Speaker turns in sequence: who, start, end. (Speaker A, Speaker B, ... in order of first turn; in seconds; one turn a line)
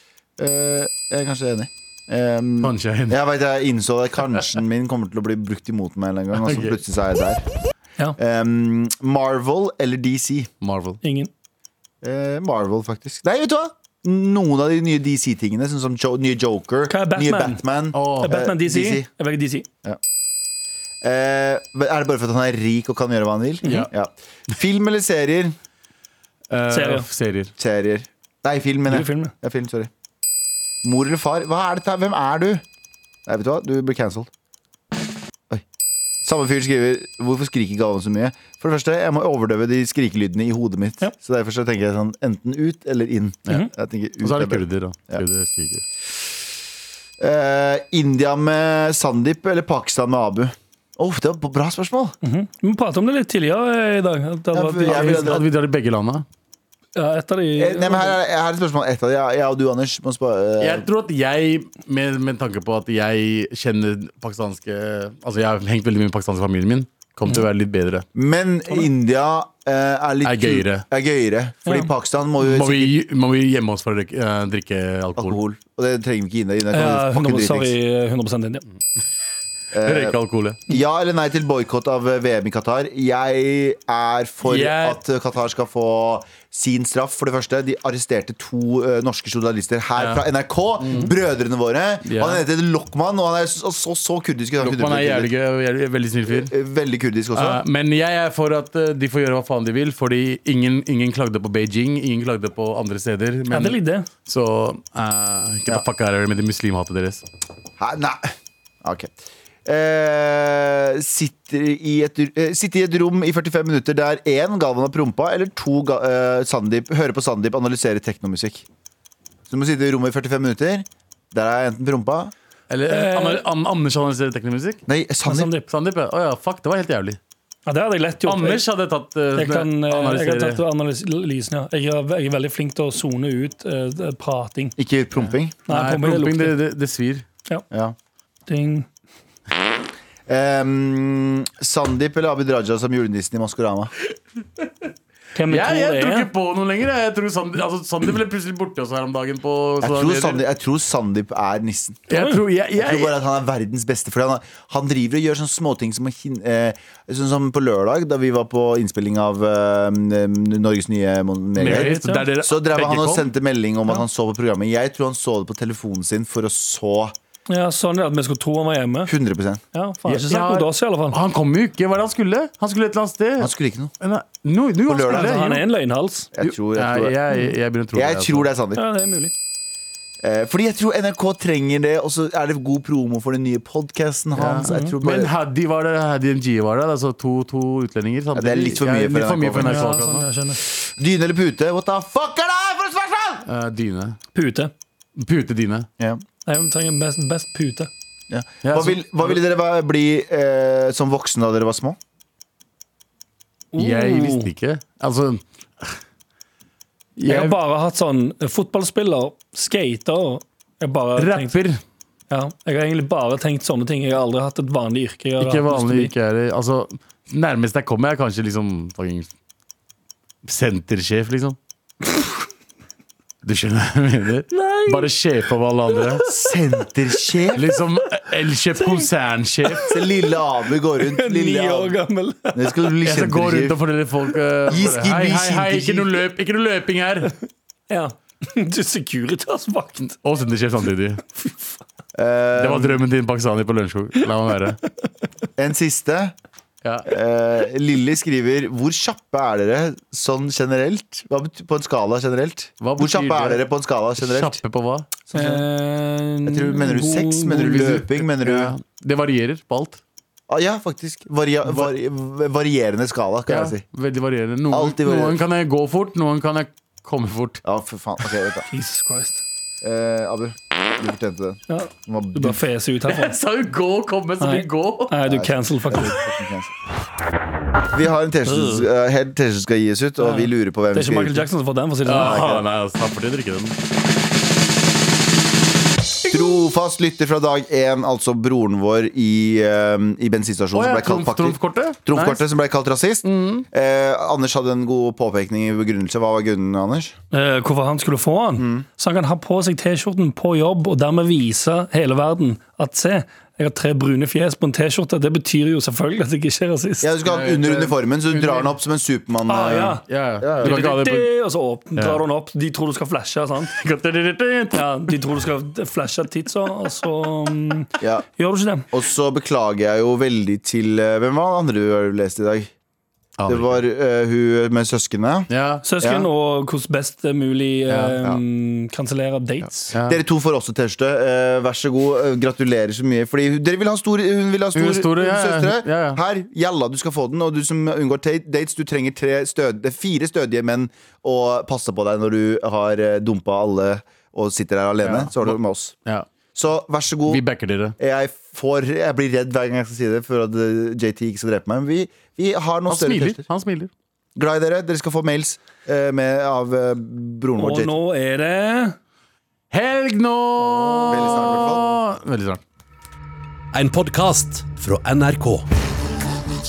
Speaker A: 0.4-7.4
Speaker B: 2.6-3.2
Speaker B: 6.3-6.8
Speaker A: 8.2-10.5
Speaker B: 10.6-11.0
Speaker C: 11.0-11.3
Speaker A: 12.0-19.1
Speaker C: 16.9-17.6
Speaker B: 17.9-18.3
Speaker C: 18.2-19.7
Speaker A: 21.0-25.6
Speaker C: 23.6-23.9
Speaker B: 26.5-27.5
Speaker C: 26.7-27.1
Speaker A: 27.6-29.9
Speaker C: 28.9-29.3
Speaker A: 30.8-32.6
Speaker A: 33.3-34.3
Speaker A: 36.2-45.2
Speaker B: 44.2-45.8
Speaker A: 47.2-52.1
Speaker C: 52.2-55.4
Speaker A: 54.5-55.5
Speaker B: 54.8-56.2
Speaker C: 57.0-58.2
Speaker A: 57.6-60.9
Speaker B: 60.6-68.0
Speaker A: 68.1-72.9
Speaker B: 70.2-70.8
Speaker C: 71.6-71.9
Speaker B: 72.4-75.4
Speaker A: 75.2-77.7
Speaker C: 76.7-78.6
Speaker A: 79.7-80.2
Speaker B: 79.8-80.6
Speaker A: 80.7-95.3
Speaker B: 84.4-85.0
Speaker B: 90.0-90.2
Speaker B: 90.8-91.1
Speaker B: 92.0-92.4
Speaker B: 94.6-96.5
Speaker A: 96.3-97.6
Speaker B: 97.3-107.2
Speaker C: 103.5-104.1
Speaker A: 107.8-109.1
Speaker A: 109.7-118.7
Speaker A: 119.5-122.3
Speaker B: 122.7-124.8
Speaker C: 122.8-123.4
Speaker A: 124.9-125.5
Speaker C: 125.2-125.7
Speaker B: 125.7-127.2
Speaker C: 127.7-128.6
Speaker B: 128.2-130.6
Speaker C: 129.3-134.8
Speaker A: 134.8-135.6
Speaker C: 135.7-136.6
Speaker B: 135.7-137.2
Speaker A: 137.7-137.9
Speaker C: 138.5-138.9
Speaker A: 140.3-143.9
Speaker C: 145.3-146.3
Speaker B: 145.5-150.4
Speaker A: 149.8-152.1
Speaker B: 152.1-153.1
Speaker C: 152.1-152.4
Speaker A: 152.8-167.1
Speaker B: 161.6-163.3
Speaker C: 161.6-162.2
Speaker C: 167.5-169.1
Speaker A: 169.1-169.6
Speaker C: 169.7-171.2
Speaker B: 170.1-175.6
Speaker A: 173.4-173.9
Speaker A: 174.9-175.4
Speaker C: 175.1-176.3
Speaker A: 176.3-177.3
Speaker B: 176.4-178.5
Speaker A: 177.9-178.8
Speaker C: 178.8-179.3
Speaker A: 180.2-185.3
Speaker B: 184.3-190.2
Speaker A: 188.3-189.9
Speaker C: 189.6-190.6
Speaker A: 190.7-193.4
Speaker B: 193.4-194.2
Speaker C: 194.3-194.7
Speaker B: 195.2-195.9
Speaker C: 196.4-197.9
Speaker A: 198.3-202.0
Speaker B: 198.6-199.4
Speaker C: 203.7-204.5
Speaker B: 203.8-206.0
Speaker B: 207.2-207.6
Speaker C: 207.2-211.6
Speaker B: 211.2-211.8
Speaker C: 212.3-216.1
Speaker B: 215.4-219.3
Speaker B: 220.4-221.6
Speaker B: 223.4-226.2
Speaker C: 224.5-225.1
Speaker C: 225.9-226.5
Speaker A: 226.2-227.6
Speaker B: 227.5-230.0
Speaker C: 228.8-229.0
Speaker A: 229.9-232.0
Speaker C: 231.0-232.9
Speaker A: 232.5-233.8
Speaker B: 233.0-237.3
Speaker A: 234.7-236.2
Speaker C: 237.9-240.1
Speaker B: 240.0-241.2
Speaker C: 241.4-241.8
Speaker A: 242.1-243.0
Speaker B: 242.6-244.8
Speaker A: 245.6-246.3
Speaker A: 247.0-254.6
Speaker B: 252.8-253.6
Speaker B: 254.2-255.1
Speaker A: 255.3-255.6
Speaker C: 255.3-257.6
Speaker A: 256.4-258.7
Speaker B: 257.5-260.0
Speaker A: 260.5-263.8
Speaker B: 263.5-267.6
Speaker A: 264.7-265.4
Speaker A: 267.6-268.6
Speaker C: 268.7-269.4
Speaker A: 269.8-272.6
Speaker C: 271.7-273.3
Speaker B: 273.1-275.2
Speaker C: 274.4-276.1
Speaker A: 275.3-276.7
Speaker A: 277.9-281.5
Speaker C: 278.4-278.9
Speaker C: 280.2-282.6
Speaker B: 282.0-283.8
Speaker A: 286.3-297.1
Speaker B: 290.7-292.5
Speaker B: 293.2-293.6
Speaker C: 297.3-307.1
Speaker A: 298.6-298.8
Speaker A: 307.0-310.8
Speaker B: 307.2-308.7
Speaker C: 309.5-310.0
Speaker B: 310.1-311.3
Speaker C: 310.6-313.7
Speaker B: 313.7-315.1
Speaker C: 314.7-318.9
Speaker A: 318.9-322.7
Speaker B: 323.4-323.8
Speaker A: 323.5-326.3
Speaker B: 325.5-325.8
Speaker C: 325.8-329.9
Speaker B: 327.9-328.1
Speaker B: 329.9-330.2
Speaker A: 329.9-345.9
Speaker B: 334.7-336.2
Speaker B: 345.0-346.3
Speaker A: 346.5-347.4
Speaker B: 347.3-347.9
Speaker A: 348.0-353.4
Speaker B: 352.9-353.9
Speaker A: 354.4-357.9
Speaker C: 357.6-359.0
Speaker B: 359.7-362.6
Speaker C: 360.7-361.1
Speaker A: 361.1-362.0
Speaker D: 363.7-365.7